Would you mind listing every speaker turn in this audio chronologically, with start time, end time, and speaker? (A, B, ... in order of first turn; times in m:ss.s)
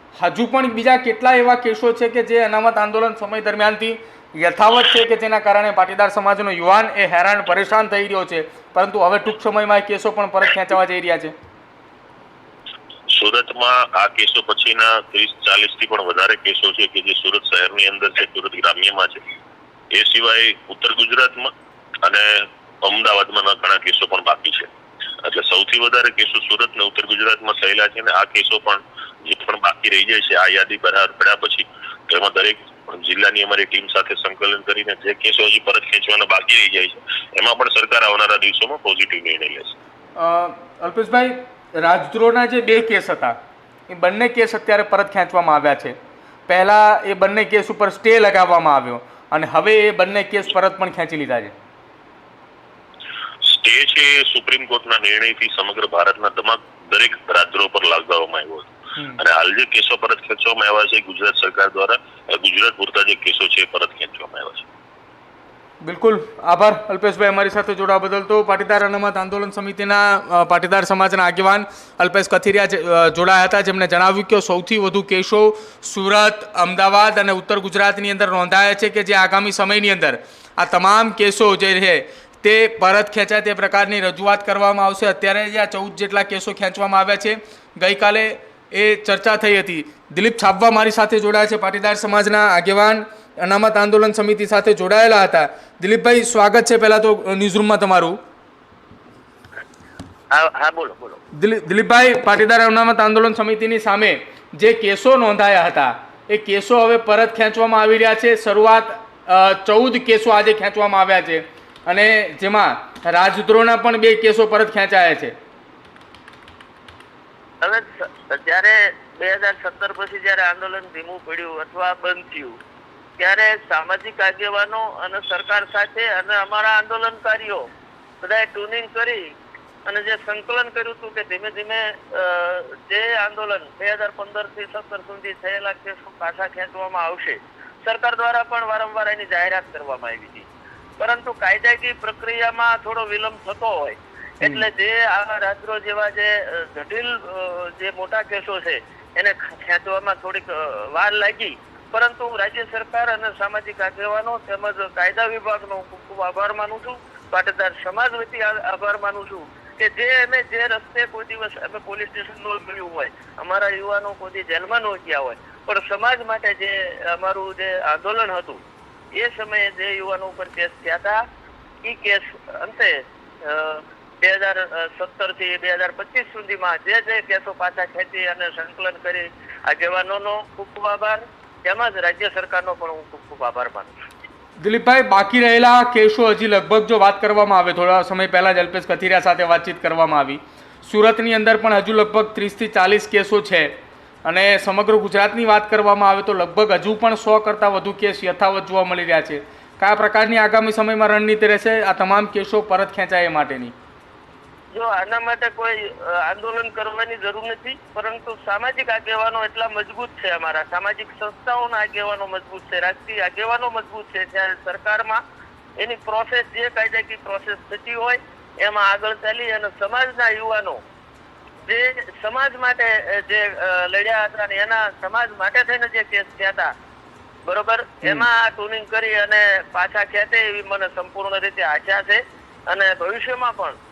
0:00.2-0:11.3 A
0:13.1-0:19.2 B
0:19.9-0:21.5 B
0:22.8-0:24.7 B
0:25.2-0:39.8 B
0:40.2-0:43.4 A
0:43.9-0:46.0 A
0:46.5-0:51.5 A
0:53.4-1:04.6 B
1:05.8-1:38.2 A
1:40.3-1:41.2 C
1:41.4-1:55.3 A
1:57.6-2:02.6 C
2:03.2-2:07.6 C
2:08.2-2:09.2 C
2:09.9-2:20.5 C
2:21.0-2:48.6 C
2:49.2-2:51.2 C
2:51.8-2:52.9 C
2:53.4-3:04.0 C
3:04.6-3:13.7 A
3:14.2-3:23.7 A
3:24.7-3:35.2 C
3:35.8-3:40.8 C
3:41.7-3:46.7 C
3:47.5-3:53.8 C